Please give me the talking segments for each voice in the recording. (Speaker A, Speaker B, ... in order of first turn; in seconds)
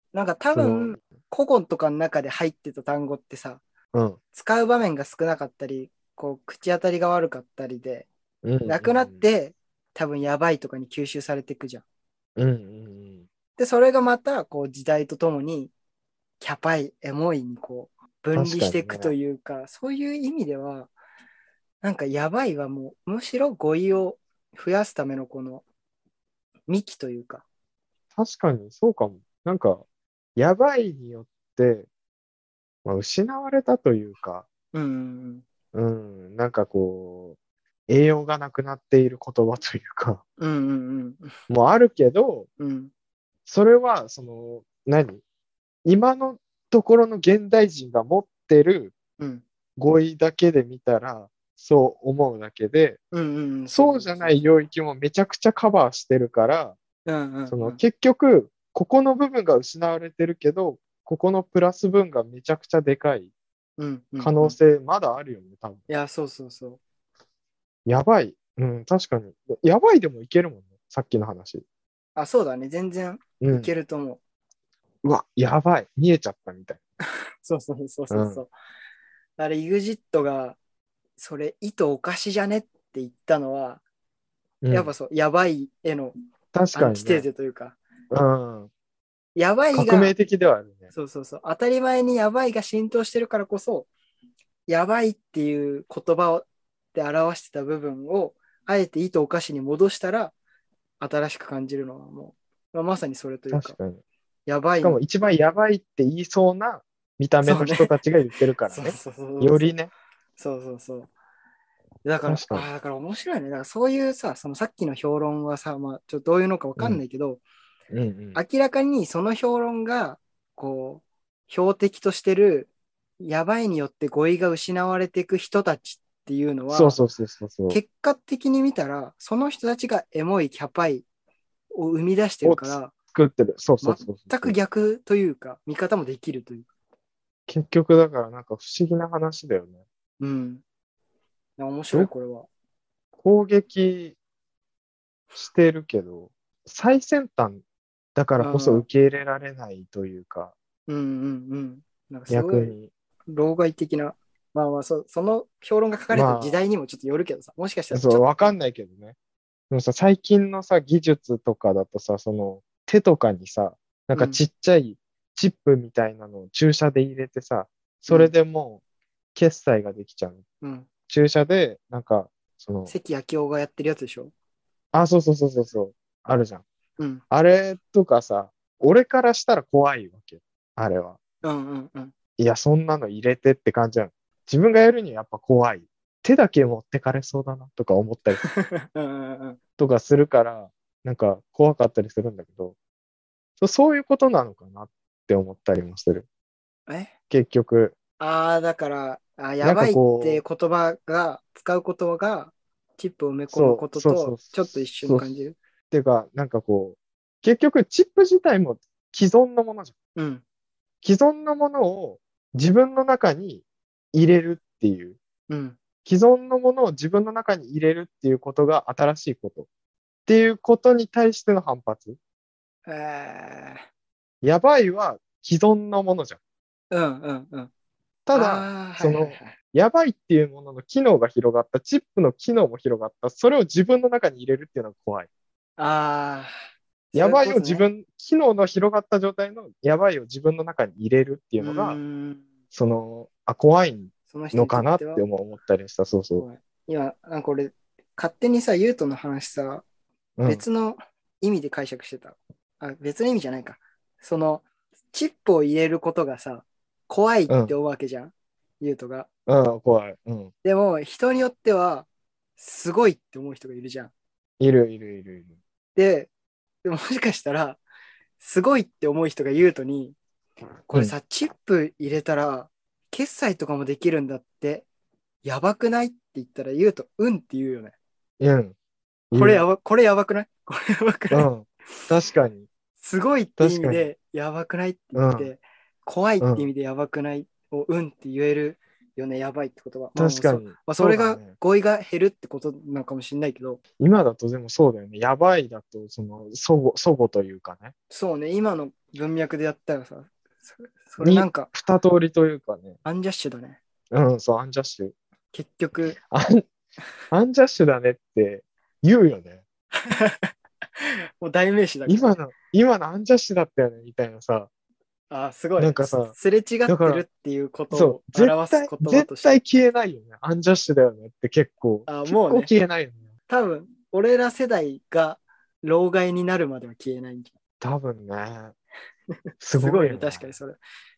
Speaker A: 0.1-3.6, 4.3-8.1, 8.6-11.8, 13.6-15.7, 16.4-20.9, 21.8-25.6, 26.7-27.4, 34.7-35.4, 40.4-41.3, 42.6-42.9, 49.2-49.4, 53.1-54.4, 57.0-57.8, 63.8-64.6, 65.9-66.8, 72.2-74.2, 77.4-78.5, 79.4-80.6, 81.2-83.8, 84.7-86.1, 86.7-87.8, 89.3-90.1, 90.9-93.9, 94.7-100.3, 101.0-103.8, 104.5-105.0, 107.4-107.9, 108.7-109.7, 110.4-111.1, 112.0-117.4, 118.3-127.0, 127.7-131.1, 131.7-132.9, 133.8-136.7, 140.2-140.6, 141.6-142.5, 148.4-148.8, 150.9-152.8, 153.3-158.5, 164.1-164.4, 168.1-168.3, 170.6-170.9, 172.9-174.3, 181.4-182.1, 188.4-189.6, 196.9-197.1, 198.2-205.6, 210.2-210.4, 215.5-215.8, 222.8-223.8, 226.9-227.7, 228.3-229.5, 235.8-236.5, 237.1-237.9, 241.6-242.4, 244.3-245.2, 246.4-249.8, 250.4-259.3, 260.6-264.1, 265.9-266.3, 266.8-267.8, 268.4-270.1, 270.9-274.9, 275.4-277.9, 279.3-281.5, 283.0-293.8, 298.1-301.7, 303.0-303.8, 305.5-306.2, 310.0-312.4, 315.3-319.6, 322.1-322.7, 323.5-327.5, 329.7-330.8
Speaker B: 0.5-1.0, 3.9-4.2, 8.4-9.2, 12.4-13.2, 18.3-19.1, 28.1-29.8, 30.4-31.9, 32.8-34.5, 35.7-37.4, 37.9-40.2, 41.5-42.5, 43.5-45.2, 45.8-48.9, 49.8-53.0, 53.7-56.8, 57.5-63.3, 64.2-65.9, 67.8-71.6, 73.4-73.7, 75.0-76.8, 78.1-78.4, 84.6-84.9, 86.5-87.2, 88.1-88.7, 89.7-90.9, 103.5-104.0, 104.8-109.9, 112.3-112.7, 117.9-118.4, 126.7-127.8, 132.4-134.6, 137.5-139.8, 143.2-144.2, 145.3-147.6, 148.1-150.5, 152.3-152.9, 156.1-156.6, 157.9-159.1, 159.7-168.8, 169.3-170.4, 171.1-172.9, 174.9-176.6, 177.3-181.2, 182.4-188.4, 189.8-192.8, 193.6-196.2, 197.3-197.9, 199.6-200.4, 203.5-205.2, 205.9-209.9, 211.0-215.2, 216.0-219.7, 220.3-222.2, 224.4-226.4, 228.2-235.3, 237.1-242.0, 242.7-246.4, 250.4-250.6, 257.5-257.7, 259.5-260.5, 264.6-265.5, 278.4-278.7, 279.3-279.6, 281.3-282.7, 283.6-284.1, 285.1-285.5, 286.4-286.7, 290.1-291.5, 294.0-297.9, 301.2-303.0, 304.1-305.1, 306.1-306.6, 307.3-309.6, 312.1-314.7, 315.8-316.3, 316.9-317.2, 317.9-323.3, 327.8-328.7, 329.6-330.6